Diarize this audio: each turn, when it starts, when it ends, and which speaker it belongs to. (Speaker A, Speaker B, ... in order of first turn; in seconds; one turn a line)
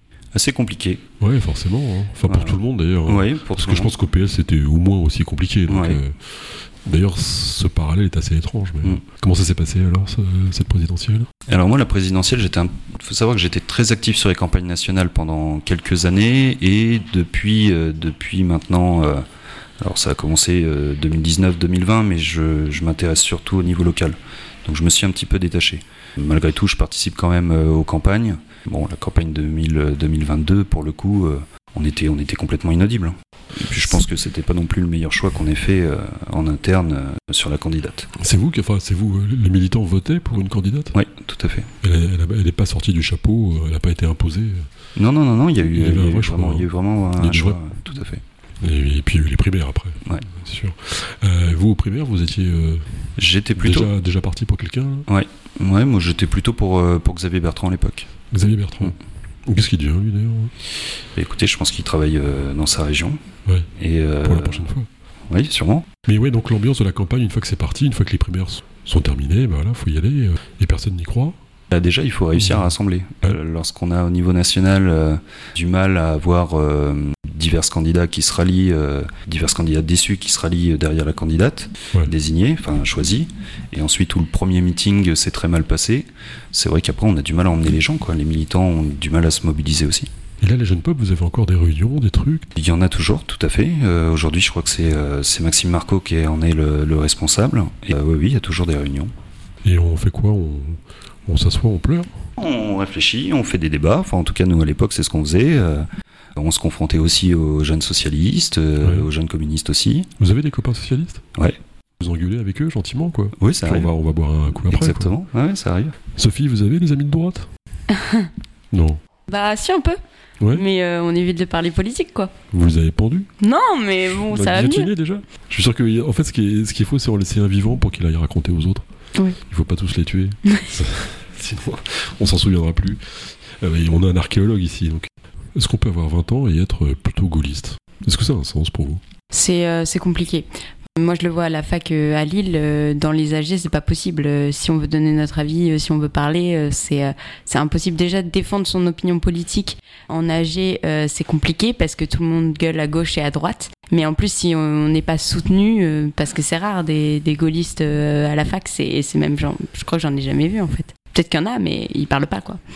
Speaker A: 0.3-1.0
Speaker B: 1.2-11.3
Speaker A: 2.3-3.9
Speaker A: 5.7-6.0
Speaker A: 11.5-19.2
Speaker A: 19.8-38.1
Speaker B: 38.2-41.0
Speaker A: 40.9-41.7
Speaker B: 41.8-44.7
Speaker A: 45.0-48.2
Speaker B: 45.7-47.6
Speaker B: 48.6-55.1
Speaker A: 53.2-53.9
Speaker A: 55.1-58.1
Speaker B: 58.3-60.5
Speaker A: 61.1-63.2
Speaker A: 63.8-64.7
Speaker B: 64.2-64.9
Speaker A: 65.3-65.9
Speaker B: 66.1-71.4
Speaker A: 71.7-90.1
Speaker B: 72.4-72.7
Speaker B: 90.4-92.5
Speaker A: 92.5-99.1
Speaker B: 99.7-102.2
Speaker A: 102.4-110.1
Speaker B: 108.8-109.1
Speaker B: 110.2-111.2
Speaker B: 112.0-115.2
Speaker A: 113.4-113.9
Speaker A: 114.7-116.0
Speaker B: 116.1-117.5
Speaker C: 117.9-118.3
Speaker B: 118.7-119.0
Speaker C: 119.3-120.0
Speaker C: 120.5-122.3
Speaker B: 122.5-123.3
Speaker C: 123.4-124.9
Speaker B: 124.2-128.8
Speaker B: 129.4-133.0
Speaker B: 133.6-139.0
Speaker C: 139.3-162.6